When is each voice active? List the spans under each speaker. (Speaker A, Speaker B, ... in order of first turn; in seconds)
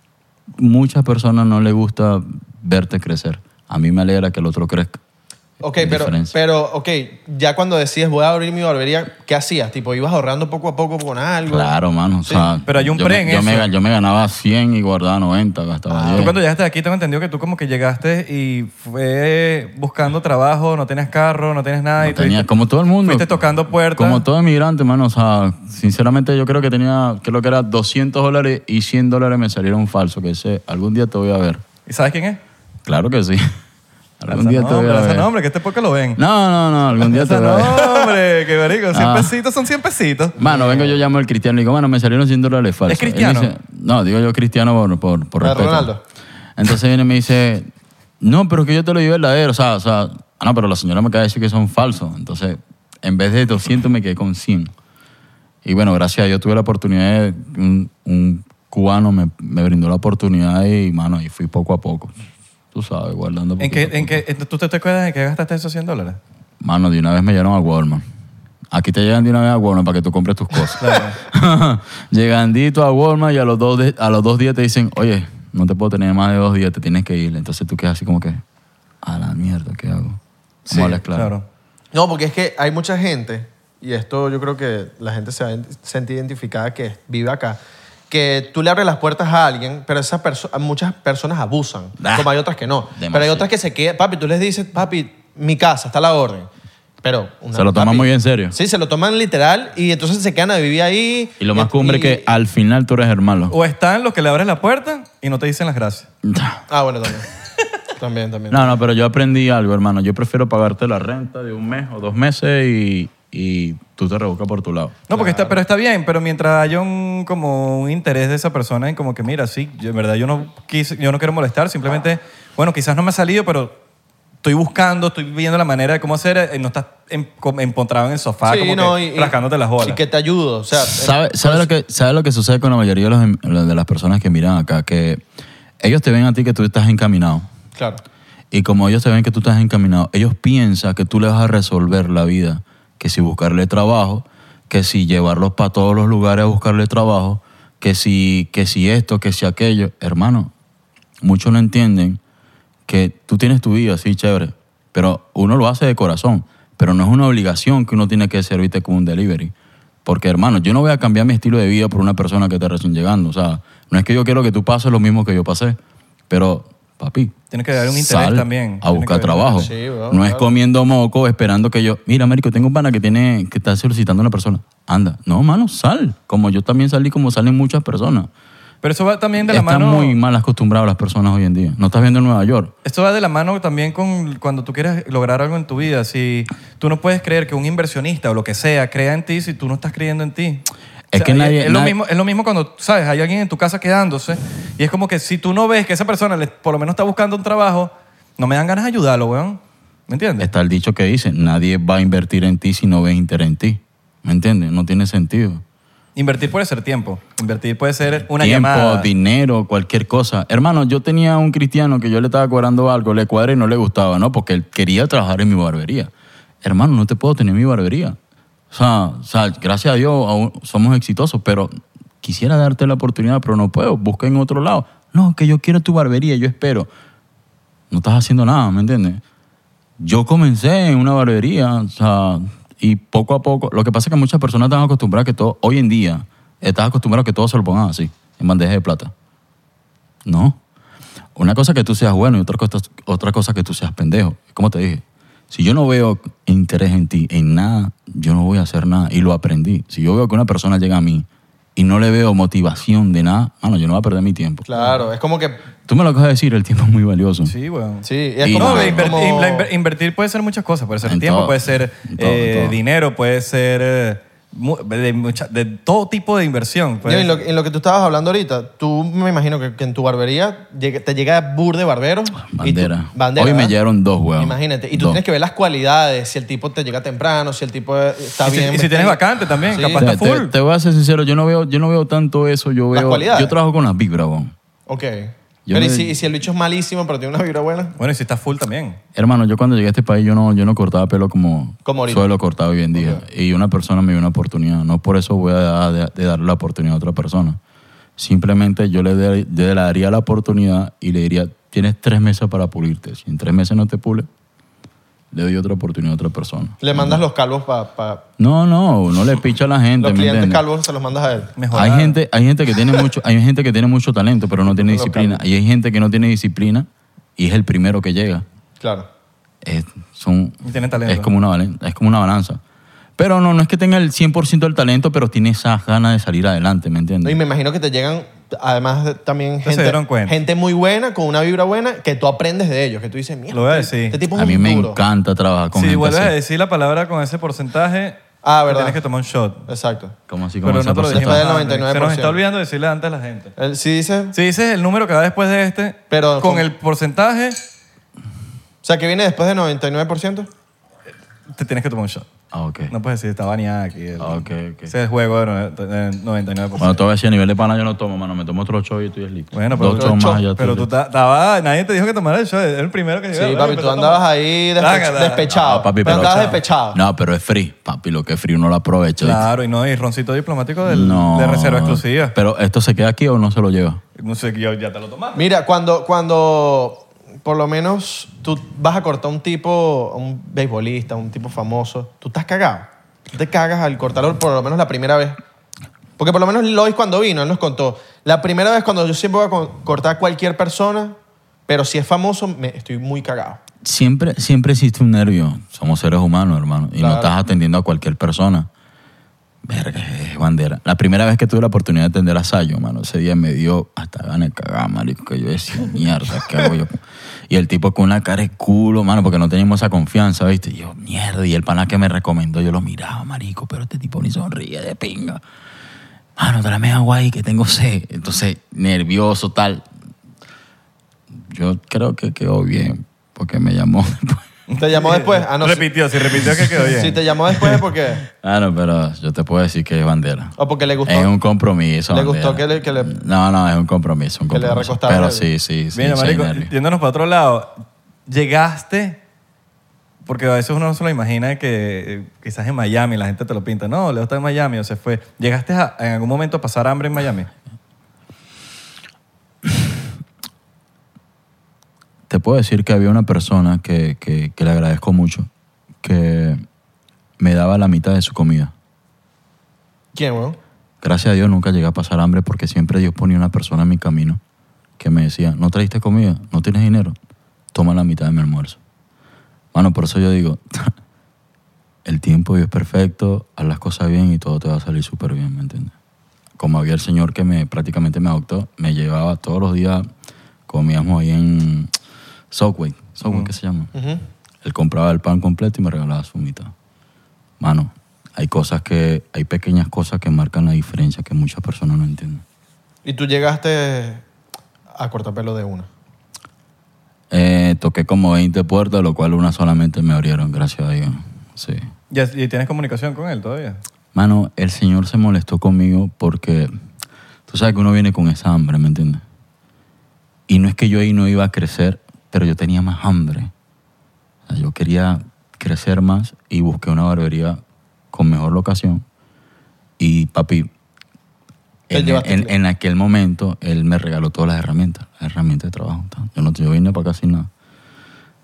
Speaker A: 0.6-5.0, 5.8-6.3, 11.5-16.4, 22.0-23.3, 23.9-31.6, 32.9-33.5, 34.2-35.3, 36.2-37.9, 38.9-39.3, 40.4-45.9, 46.6-54.7, 55.6-62.1, 62.7-64.2, 66.6-68.0, 68.7-78.4, 79.0-81.3, 92.0-92.3, 92.9-93.5, 97.5-98.6, 101.4-103.5, 106.2-106.6, 108.5-115.0, 130.8-135.2, 135.8-137.5, 138.5-150.5, 151.2-152.2, 152.9-159.5, 160.1-165.8, 166.3-178.3, 179.4-182.7, 191.1-191.9, 200.4-205.6, 208.3-216.1, 216.6-218.2, 218.7-226.9, 227.9-229.2, 230.0-239.1, 240.2-240.6, 241.4-254.7, 255.9-257.5, 258.4-259.2, 261.0-262.8, 272.5-275.2, 280.0-284.5, 285.7-286.1, 289.1-297.6, 298.2-304.3, 305.3-307.2, 308.4-310.6, 311.7-318.4, 319.6-322.6, 323.2-327.4, 334.3-336.3, 340.3-341.4, 352.5-352.9, 354.2-354.9, 356.8-360.9, 365.5-369.5, 370.9-374.0, 393.8-398.7, 399.6-415.4, 416.4-419.9, 421.5-424.4, 428.3-436.7, 452.3-455.5, 456.0-456.6, 457.4-458.7, 461.0-464.4, 465.0-467.2, 467.7-468.8, 469.7-470.9, 472.1-475.9, 476.6-480.1, 480.7-481.9, 482.5-483.9, 484.6-486.7, 487.6-492.4, 497.3-501.9, 504.1-506.7, 507.5-509.2, 510.5-513.5, 514.5-517.6, 518.1-519.0, 520.0-520.7, 521.9-527.5
Speaker B: 5.6-11.7, 15.9-16.4, 40.4-41.0, 45.4-46.0, 80.7-81.0, 81.9-87.6, 88.1-96.5, 97.0-102.3, 106.7-107.3, 108.0-108.8, 115.1-115.6, 128.4-131.7, 137.8-138.0, 169.6-170.5, 254.7-255.7, 258.0-259.7, 267.0-273.8, 274.4-280.1, 282.9-283.6, 284.9-287.9, 291.9-292.3, 292.9-293.2, 306.8-308.2, 310.0-311.5, 314.6-315.4, 318.8-319.1, 327.2-335.0, 338.4-339.0, 339.7-340.2, 341.1-342.4, 343.6-344.4, 346.1-346.7, 348.8-350.5, 359.9-360.4, 363.3-367.0, 375.4-385.4, 386.2-391.2, 391.7-393.6, 397.0-397.3, 424.8-425.9, 426.7-428.2, 430.6-431.3, 432.1-433.1, 434.5-435.5, 460.1-460.6, 483.9-484.2, 493.1-494.2, 494.9-495.9, 521.9-522.5
Speaker C: 12.7-13.7, 16.1-22.5, 23.0-24.2, 31.9-32.4, 34.3-36.2, 37.0-40.4, 42.9-43.5, 63.6-66.2, 70.8-71.2, 81.1-81.4, 103.5-106.1, 115.1-123.8, 124.4-130.0, 167.5-169.7, 178.8-180.2, 182.8-200.5, 206.2-209.1, 257.5-267.4, 278.4-280.5, 288.0-289.0, 311.6-312.2, 320.6-321.3, 329.6-330.4, 333.5-334.2, 335.7-339.7, 340.6-343.5, 344.3-347.6, 351.5-352.3, 352.9-357.0, 359.5-364.2, 364.8-365.5, 366.2-366.5, 369.2-372.4, 374.2-375.4, 424.7-427.8, 435.9-439.2, 440.3-447.5, 502.1-503.8